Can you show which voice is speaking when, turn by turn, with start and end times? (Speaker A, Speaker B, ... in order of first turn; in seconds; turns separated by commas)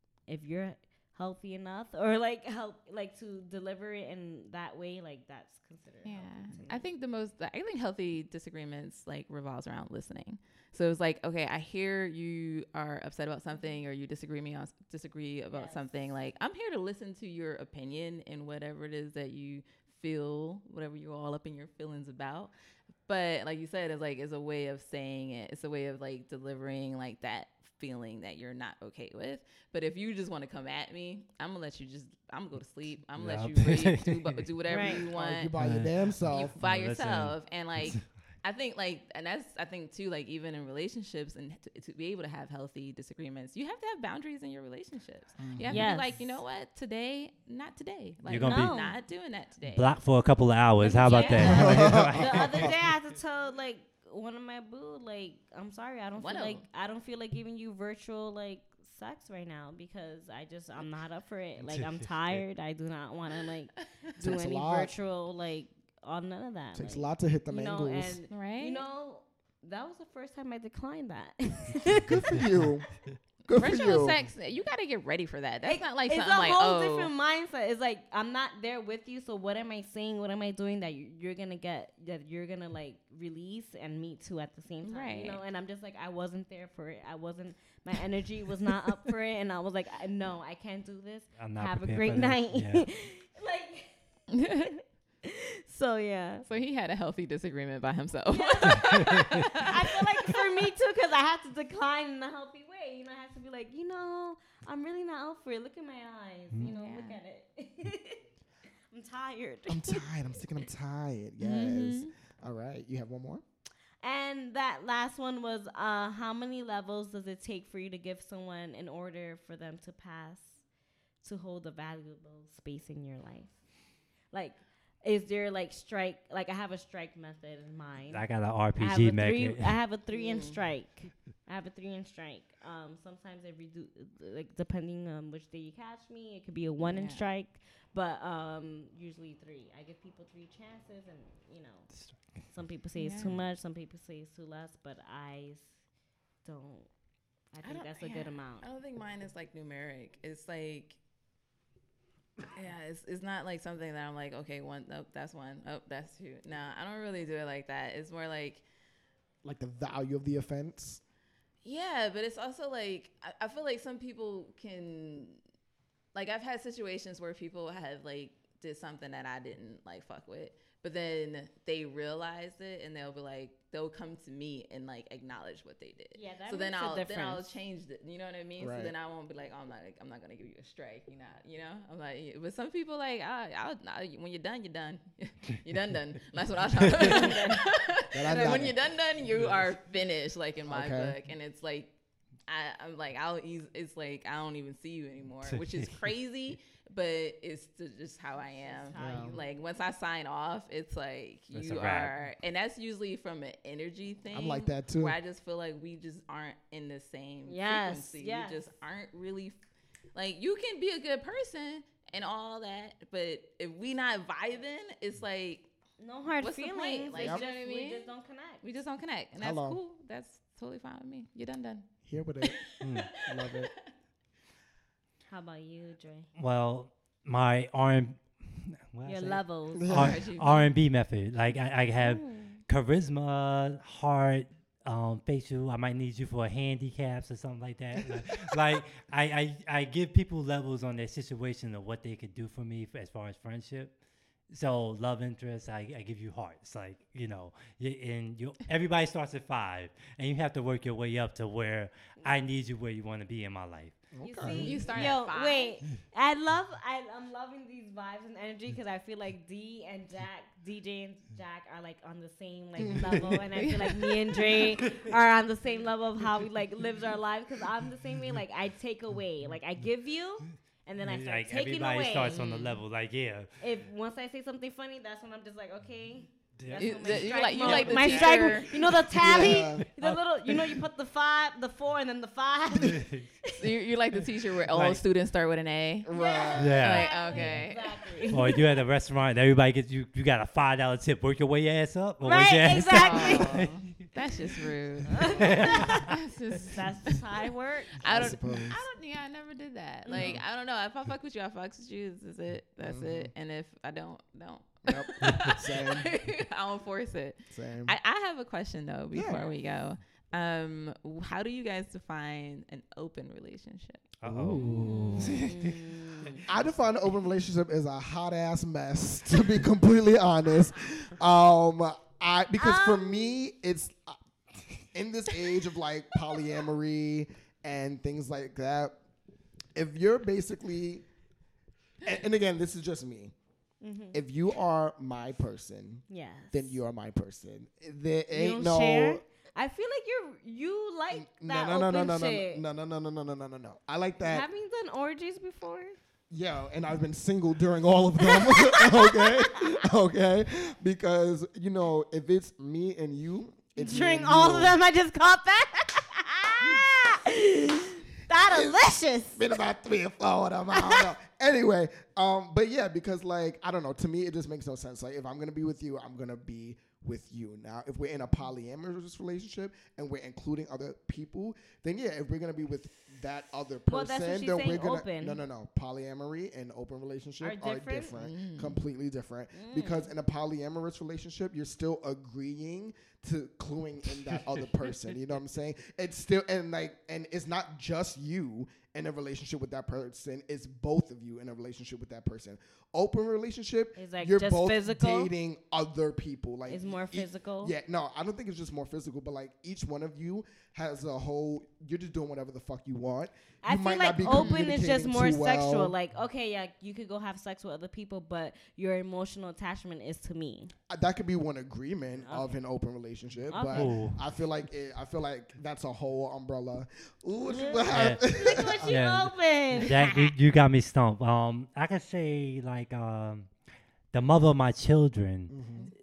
Speaker A: 0.3-6.9, Speaker B: 6.0-22.5, Speaker A: 15.5-16.1, Speaker B: 23.1-35.5, Speaker C: 33.2-34.4, Speaker A: 34.7-35.0, Speaker D: 34.8-36.5, Speaker C: 35.6-38.1, Speaker B: 36.3-50.0, Speaker D: 45.4-45.7, Speaker A: 45.6-46.2, Speaker C: 48.3-48.8, Speaker A: 48.4-49.0, Speaker C: 49.7-52.8, Speaker A: 50.8-72.2, Speaker B: 50.8-51.9, Speaker D: 51.4-52.7, Speaker B: 56.2-56.6, Speaker C: 61.6-62.4, Speaker D: 64.2-64.9, Speaker D: 66.7-68.2, Speaker B: 68.3-68.8, Speaker D: 72.0-74.2, Speaker B: 73.5-77.1, Speaker A: 75.6-96.5, Speaker B: 84.8-85.4, Speaker C: 91.4-92.8, Speaker B: 94.3-94.7, Speaker B: 96.5-99.7, Speaker A: 98.3-108.2, Speaker B: 106.6-107.2, Speaker A: 108.9-110.1, Speaker D: 109.7-113.4, Speaker B: 111.4-112.1, Speaker A: 114.0-120.6, Speaker A: 121.2-123.6, Speaker A: 124.3-141.9, Speaker C: 128.1-129.8, Speaker B: 130.1-130.6, Speaker B: 136.8-137.2, Speaker C: 141.9-142.4, Speaker A: 142.5-145.7, Speaker B: 143.0-143.3, Speaker A: 146.4-146.9, Speaker A: 147.5-148.7, Speaker B: 147.6-151.0, Speaker B: 152.5-158.6, Speaker D: 159.4-161.0, Speaker B: 161.6-165.4, Speaker B: 166.1-191.9, Speaker A: 176.2-177.5, Speaker D: 178.6-178.9, Speaker C: 186.9-187.3, Speaker A: 187.0-187.7, Speaker D: 188.1-188.8, Speaker D: 190.7-191.2, Speaker B: 192.5-209.6, Speaker C: 195.5-195.9, Speaker A: 198.5-199.4, Speaker D: 199.0-199.4, Speaker C: 201.5-202.1, Speaker D: 204.3-205.2, Speaker A: 207.5-208.6, Speaker B: 210.1-215.7, Speaker A: 216.0-218.6, Speaker B: 216.4-218.1, Speaker D: 217.1-217.4, Speaker B: 218.6-221.8, Speaker D: 219.4-219.8, Speaker D: 222.1-223.7, Speaker B: 222.4-223.7, Speaker A: 225.3-226.3, Speaker C: 226.3-243.9, Speaker A: 229.1-229.9, Speaker D: 229.7-230.2, Speaker B: 229.9-230.7, Speaker A: 232.0-232.6, Speaker D: 238.0-238.6, Speaker C: 244.5-255.1, Speaker D: 254.1-254.8, Speaker A: 254.2-272.4, Speaker B: 254.5-255.8, Speaker D: 262.8-263.2, Speaker C: 262.8-263.4, Speaker B: 263.6-264.4, Speaker C: 264.6-265.1, Speaker C: 271.0-273.5, Speaker B: 272.3-272.8, Speaker A: 273.6-283.5, Speaker C: 276.6-280.8, Speaker B: 276.7-278.7, Speaker D: 279.1-279.9, Speaker C: 282.8-283.3, Speaker B: 283.6-286.1, Speaker C: 284.7-285.0, Speaker D: 286.0-286.8, Speaker A: 286.1-288.6, Speaker C: 286.6-287.6, Speaker B: 286.7-288.1, Speaker C: 288.3-293.9, Speaker A: 292.2-293.6, Speaker B: 292.8-297.1, Speaker C: 295.1-296.1, Speaker A: 295.1-298.3, Speaker B: 298.0-314.1, Speaker D: 298.0-298.8, Speaker D: 300.1-300.4, Speaker D: 302.8-303.3, Speaker D: 304.9-306.1, Speaker D: 307.5-307.9, Speaker D: 309.1-309.4, Speaker C: 314.2-316.5, Speaker D: 314.2-315.4, Speaker A: 314.6-316.4, Speaker D: 316.4-328.9, Speaker A: 322.6-323.3, Speaker D: 329.7-331.0, Speaker D: 332.0-333.3, Speaker A: 333.8-334.2, Speaker D: 334.1-339.2, Speaker A: 336.1-336.7, Speaker A: 338.3-342.6, Speaker D: 341.1-344.4, Speaker A: 344.2-346.0, Speaker D: 346.3-354.8, Speaker A: 348.2-349.3, Speaker A: 353.8-359.5, Speaker D: 358.5-358.8, Speaker D: 359.3-405.9, Speaker A: 360.7-361.0, Speaker A: 373.9-375.4, Speaker A: 377.4-378.1, Speaker B: 378.1-378.8, Speaker A: 379.5-380.1, Speaker A: 394.0-395.3, Speaker A: 396.7-397.7, Speaker A: 403.6-410.7, Speaker B: 404.2-404.6, Speaker D: 410.9-418.9, Speaker A: 412.2-412.5, Speaker A: 413.5-413.9, Speaker C: 413.7-414.2, Speaker A: 417.5-420.3, Speaker C: 417.9-418.2, Speaker C: 418.8-423.5, Speaker C: 424.1-425.5, Speaker D: 425.5-425.9